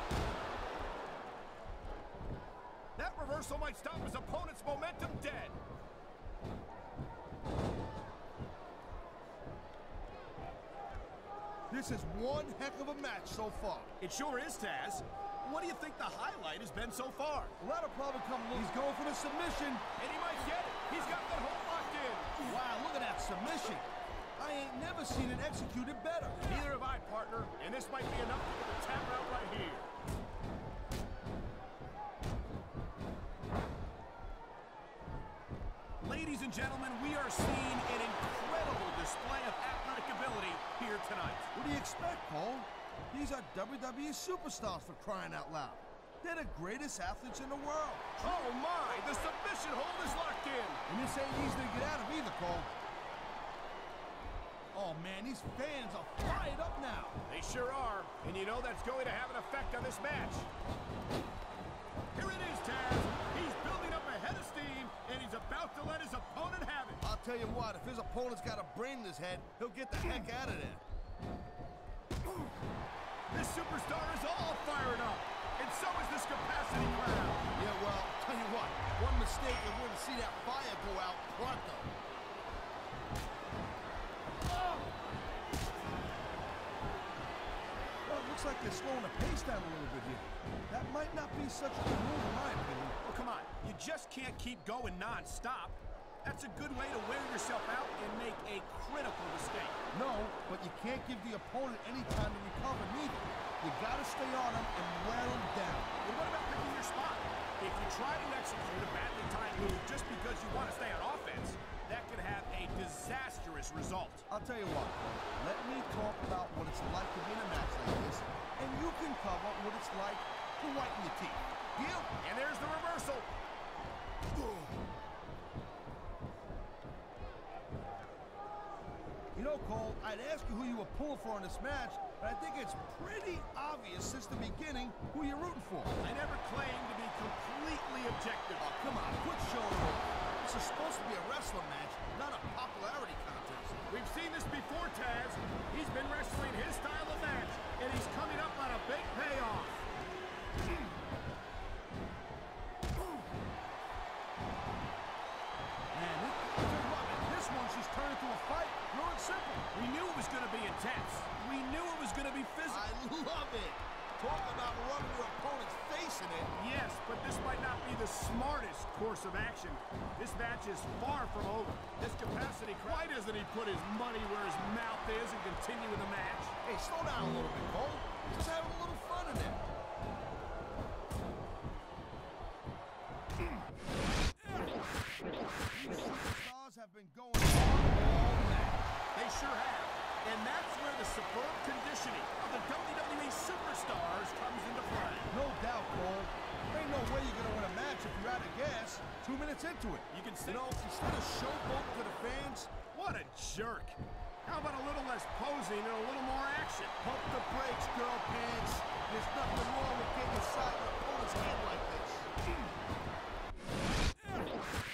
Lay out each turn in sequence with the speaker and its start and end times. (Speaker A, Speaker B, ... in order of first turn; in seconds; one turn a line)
Speaker A: 3.0-5.5
Speaker B: 11.7-13.9
Speaker A: 14.0-17.5
Speaker B: 17.6-19.8
Speaker A: 20.0-22.6
Speaker B: 22.4-26.4
Speaker A: 26.4-29.9
Speaker A: 36.0-41.5
Speaker B: 41.5-48.2
Speaker A: 48.2-50.8
Speaker B: 50.9-52.7
Speaker B: 54.7-57.2
Speaker A: 57.2-60.5
Speaker A: 62.1-67.0
Speaker B: 67.0-70.8
Speaker A: 73.3-77.5
Speaker B: 77.5-81.9
Speaker B: 88.0-93.0
Speaker A: 93.0-99.8
Speaker B: 99.9-105.9
Speaker A: 106.0-114.2
Speaker B: 114.3-122.1
Speaker A: 122.2-123.3
Speaker B: 129.3-135.9
Speaker A: 136.0-138.7
Speaker B: 138.6-143.8
Speaker A: 143.9-149.8
Speaker B: 155.9-159.7
Speaker A: 159.7-162.9
Speaker B: 162.7-166.5
Speaker A: 166.5-176.5
Speaker B: 176.6-179.7
Speaker B: 185.7-188.9
Speaker A: 189.1-195.3
Speaker B: 195.3-202.7
Speaker A: 200.1-200.7
Speaker A: 202.9-207.0
Speaker B: 207.0-212.3